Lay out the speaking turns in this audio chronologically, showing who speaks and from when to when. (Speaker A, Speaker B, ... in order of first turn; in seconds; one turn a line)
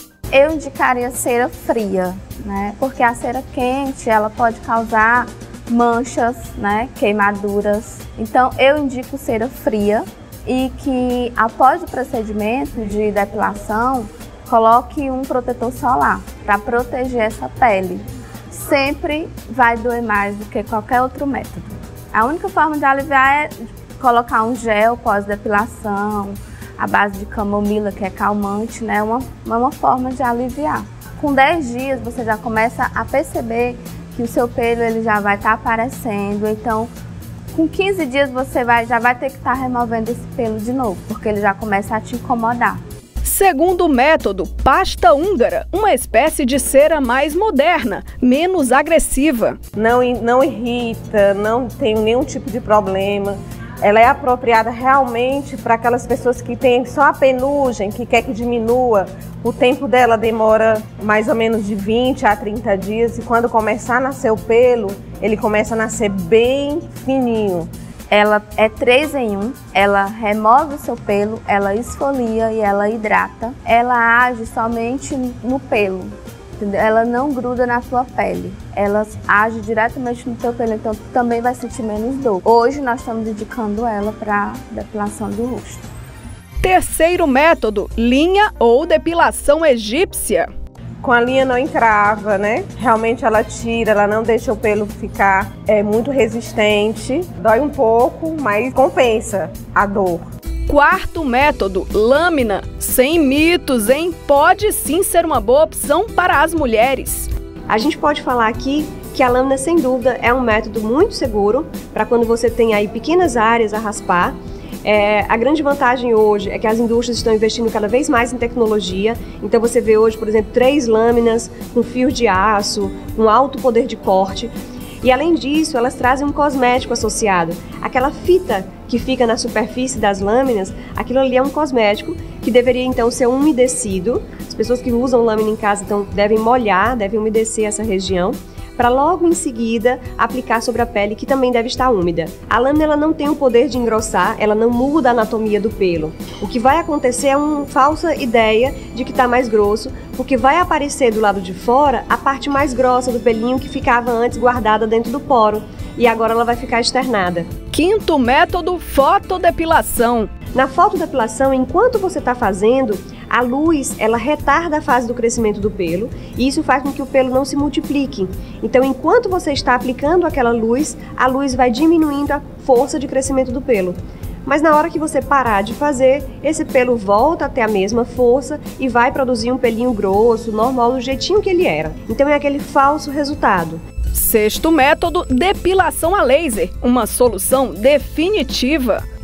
Speaker A: 0.3-36.9
Speaker A: 37.5-42.8
Speaker B: 43.2-49.6
Speaker C: 49.8-67.7
Speaker A: 68.1-85.8
Speaker B: 86.6-90.5
Speaker C: 91.0-100.2
Speaker B: 100.7-107.3
Speaker D: 107.7-157.5
Speaker B: 157.7-160.3
Speaker D: 160.6-183.8
Speaker B: 184.1-189.0